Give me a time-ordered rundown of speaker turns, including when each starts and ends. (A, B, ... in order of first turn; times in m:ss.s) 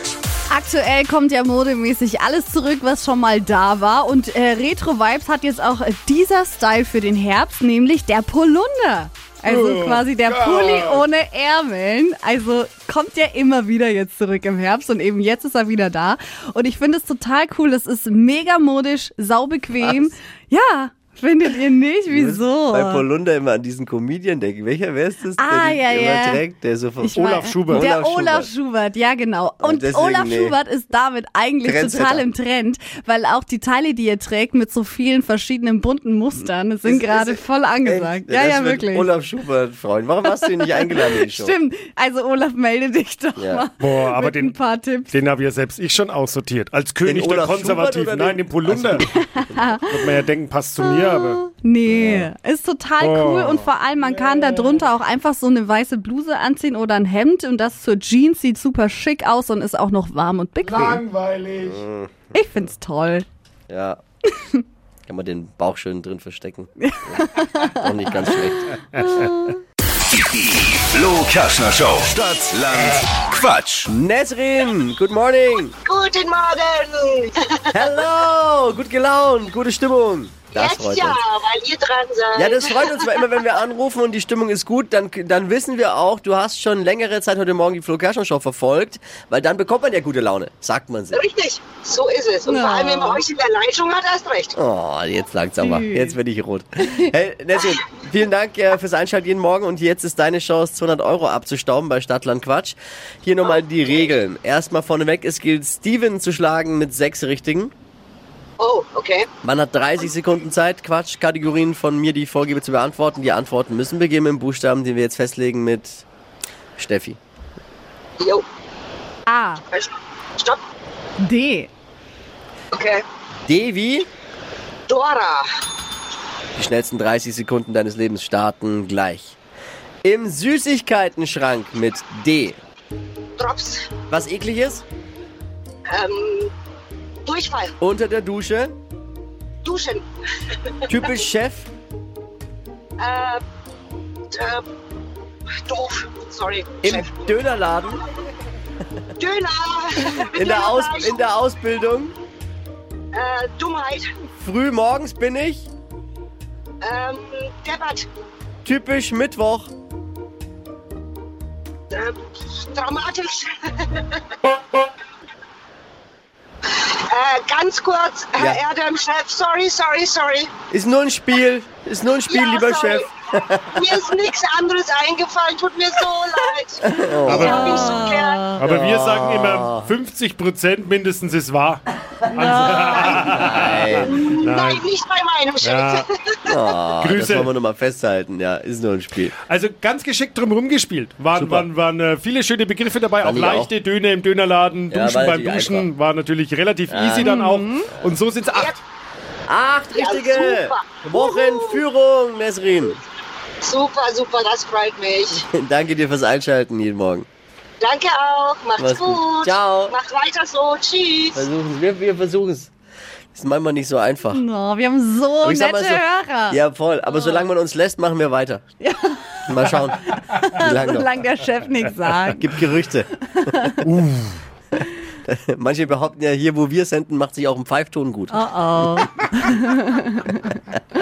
0:00.5-0:23.0 A
0:09.4-0:11.0 B
0:19.8-0:20.1 C
0:22.1-0:28.5 C
0:25.4-0:26.4 A
0:27.0-0:39.1 A
0:27.1-0:27.8 B
0:29.6-0:30.6 C
0:31.6-0:32.2 C
0:36.8-0:41.5 C
0:40.3-0:45.1 A
0:43.4-0:43.6 C
0:43.8-0:44.6 B
0:45.1-0:49.1 B
0:47.0-0:49.7 C
0:49.1-0:49.9 A
0:49.8-0:51.4 B
0:50.9-1:01.0 A
0:51.9-0:52.3 C
0:53.0-0:54.8 B
1:00.6-1:01.8 B
1:01.6-1:02.3 C
1:02.3-1:03.2 A
1:03.7-1:04.0 C
1:05.1-1:08.8 C
1:06.8-1:07.9 A
1:08.6-1:09.6 A
1:10.3-1:13.9 D
1:13.9-1:15.7 C
1:15.8-1:17.8 E
1:17.7-1:21.2 C
1:20.5-1:23.4 E
1:22.4-1:31.2 C
1:31.1-1:34.6 E
1:32.4-1:33.2 A
1:34.5-1:47.7 C
1:35.6-1:36.2 A
1:48.6-1:49.3 E
1:49.4-1:56.0 C
1:56.8-1:57.2 C
1:58.2-1:58.4 E
1:59.3-1:59.6 A
1:59.7-2:00.6 E
2:01.2-2:01.7 A
2:02.7-2:03.0 E
2:03.4-2:04.1 C
2:04.9-2:05.5 E
2:06.5-2:09.4 C
2:10.0-2:12.6 C
2:13.4-2:13.9 E
2:14.1-2:14.8 C
2:15.9-2:16.5 E
2:17.2-2:17.8 E
2:17.8-2:18.8 C
2:19.6-2:20.0 E
2:20.9-2:21.7 C
2:23.0-2:23.4 E
2:24.3-2:24.6 E
2:25.6-2:27.2 E
2:26.8-2:28.0 C
2:29.2-2:31.2 E
2:30.1-2:32.1 C
2:33.1-2:34.1 E
2:34.3-2:35.7 C
2:36.8-2:38.1 E
2:38.6-2:39.7 C
2:41.9-2:44.2 E
2:46.7-2:50.5 E
2:50.7-2:54.0 C
2:52.2-2:53.1 E
2:53.8-2:56.8 E
2:56.8-2:57.9 C
2:57.2-3:04.9 B
2:57.3-2:58.6 A
2:57.6-2:58.4 E
2:58.6-2:59.9 C
3:02.4-3:03.3 A
3:03.1-3:04.2 C
3:04.1-3:06.7 E
3:05.6-3:06.0 B
3:06.5-3:09.3 C
3:07.0-3:07.5 B
3:09.4-3:18.8 B
3:11.3-3:11.7 C
3:13.2-3:13.7 C
3:14.9-3:15.9 C
3:16.9-3:17.3 C
3:17.2-3:17.9 A
3:18.5-3:18.8 E
3:19.5-3:23.0 C
3:19.9-3:21.8 E
3:23.6-3:25.4 E
3:25.5-3:27.3 C
3:27.8-3:31.4 E
3:28.8-3:30.0 C
3:31.3-3:32.7 C
3:33.3-3:34.4 C
3:34.3-3:36.6 A
3:35.4-3:38.6 C
3:38.8-3:42.6 A
3:39.5-3:41.1 C
3:42.3-3:43.1 C
3:43.2-3:43.8 A
3:43.8-3:44.4 B
3:45.2-3:48.4 C
3:48.3-3:50.6 A